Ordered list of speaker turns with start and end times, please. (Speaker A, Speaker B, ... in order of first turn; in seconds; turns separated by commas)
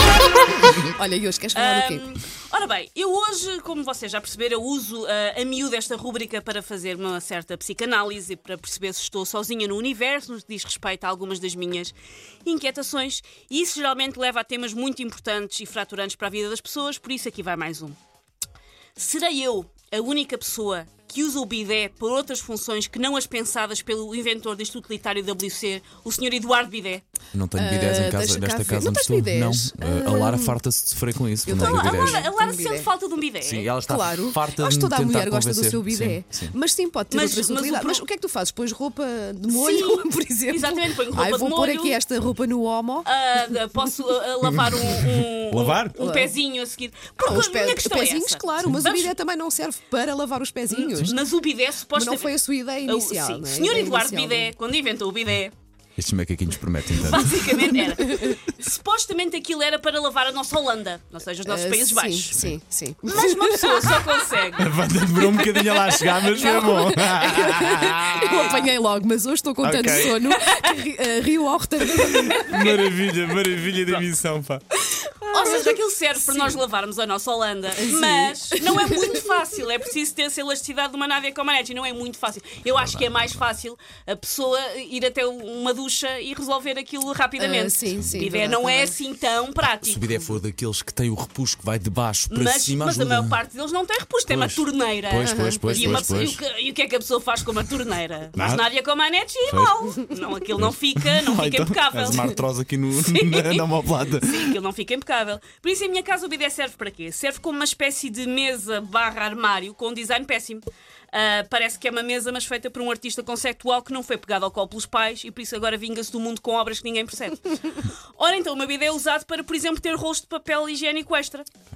Speaker A: 0.7-2.0, Speaker B: 1.5-11.9, Speaker B: 12.4-18.0, Speaker B: 19.0-27.0, Speaker C: 27.3-32.3, Speaker A: 27.6-30.6, Speaker A: 31.5-32.9, Speaker B: 31.5-33.7, Speaker C: 33.4-36.6, Speaker A: 33.8-43.9, Speaker B: 37.1-38.0, Speaker B: 39.5-42.0, Speaker B: 43.0-49.2, Speaker C: 44.5-46.0, Speaker A: 46.0-46.4, Speaker A: 47.2-51.2, Speaker B: 50.7-55.5, Speaker A: 51.9-54.5, Speaker C: 56.0-57.9, Speaker B: 56.8-62.4, Speaker A: 57.8-58.4, Speaker A: 61.5-64.2, Speaker C: 62.3-62.6, Speaker B: 63.0-64.7, Speaker C: 64.6-68.7, Speaker A: 65.2-72.6, Speaker B: 68.2-68.6, Speaker C: 69.6-70.4, Speaker C: 72.0-74.6, Speaker B: 72.1-73.0, Speaker B: 73.8-74.1, Speaker B: 74.8-90.0, Speaker A: 75.3-76.6, Speaker A: 77.8-79.2, Speaker C: 82.7-83.5, Speaker A: 87.4-89.0, Speaker C: 87.9-88.2, Speaker C: 89.6-93.4, Speaker B: 92.3-102.4, Speaker C: 94.3-96.4, Speaker A: 95.2-96.4, Speaker C: 98.3-98.7, Speaker C: 99.5-99.8, Speaker C: 100.5-104.6, Speaker B: 103.0-121.5